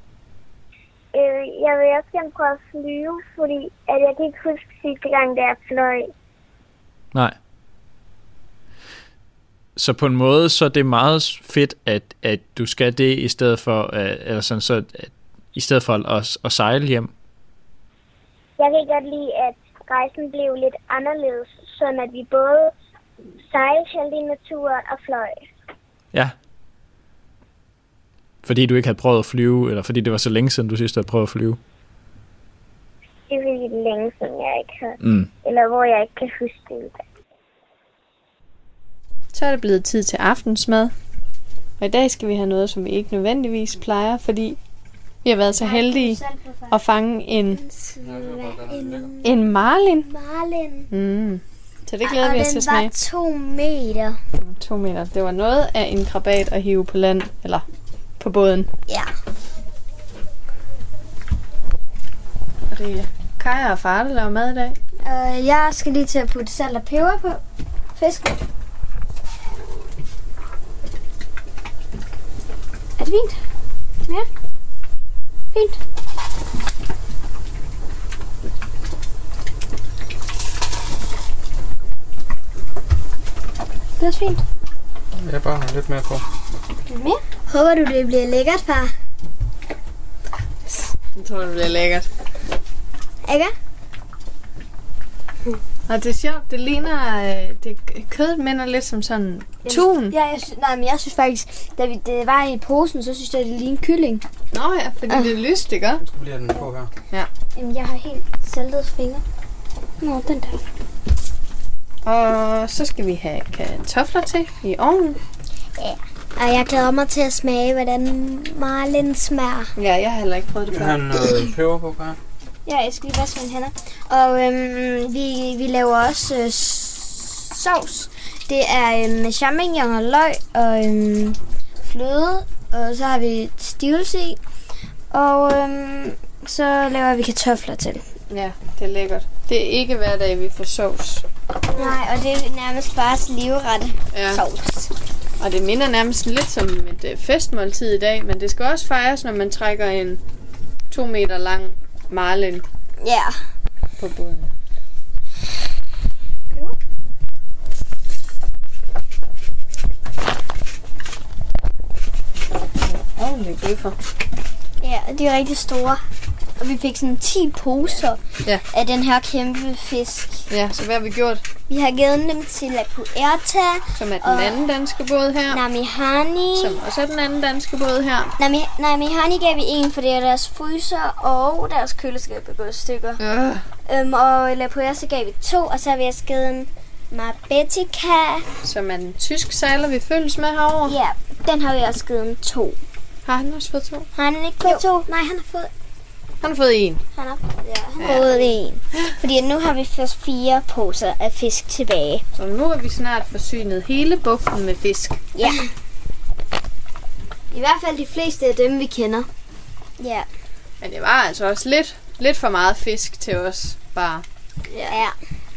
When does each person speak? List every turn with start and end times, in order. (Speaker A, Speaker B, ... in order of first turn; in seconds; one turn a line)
Speaker A: 1.1-6.1
Speaker B: 9.8-17.1
Speaker A: 18.6-22.7
Speaker A: 23.4-25.4
Speaker B: 28.4-31.6
Speaker A: 33.3-36.9
Speaker B: 35.0-35.3
Speaker C: 39.3-40.9
Speaker C: 41.8-44.6
Speaker C: 45.2-47.6
Speaker D: 45.6-46.8
Speaker D: 47.5-49.4
Speaker E: 48.0-49.1
Speaker C: 49.2-50.1
Speaker D: 50.0-50.9
Speaker C: 50.9-52.9
Speaker D: 52.0-54.2
Speaker C: 54.4-57.6
Speaker C: 58.2-58.7
Speaker D: 58.9-59.2
Speaker C: 62.7-64.8
Speaker D: 65.0-67.4
Speaker D: 67.9-68.4
Speaker D: 73.0-73.4
Speaker D: 75.5-75.8
Speaker D: 84.0-84.4
Speaker E: 85.1-86.2
Speaker D: 86.9-88.9
Speaker C: 90.7-92.1
Speaker D: 93.2-93.5
Speaker C: 95.9-100.2
Speaker D: 99.6-104.2
Speaker C: 104.5-106.0
Speaker E: 106.0-106.9
Speaker D: 107.5-109.2
Speaker D: 110.0-110.6
Speaker C: 112.0-115.2
Speaker D: 115.8-119.7
Speaker C: 119.8-121.2
Speaker E: 120.7-122.2
Speaker D: 122.7-134.4
Speaker D: 135.1-138.1
Speaker C: 138.3-141.9
Speaker D: 141.7-144.9
Speaker C: 144.1-144.4
Speaker C: 145.4-150.2
Speaker C: 150.9-152.6
Speaker D: 153.0-153.4
Speaker C: 154.0-154.5
Speaker C: 162.8-164.0
Speaker D: 164.8-166.0
Speaker D: 166.6-170.5
Speaker C: 170.5-171.4
Speaker D: 171.7-174.6
Speaker C: 173.9-175.6
Speaker D: 175.5-176.8
Speaker C: 176.5-178.3
Speaker D: 178.4-183.2
Speaker C: 183.2-183.7
Speaker D: 183.8-188.4
Speaker C: 188.6-191.0
Speaker D: 190.8-192.8
Speaker C: 193.2-194.1
Speaker D: 194.1-195.7
Speaker C: 196.4-197.0
Speaker D: 197.2-202.2
Speaker C: 198.0-198.5
Speaker C: 202.3-205.6
Speaker D: 205.3-205.7
Speaker D: 207.5-209.3
Speaker D: 210.0-210.3
Speaker C: 210.8-214.2
Speaker D: 214.7-215.1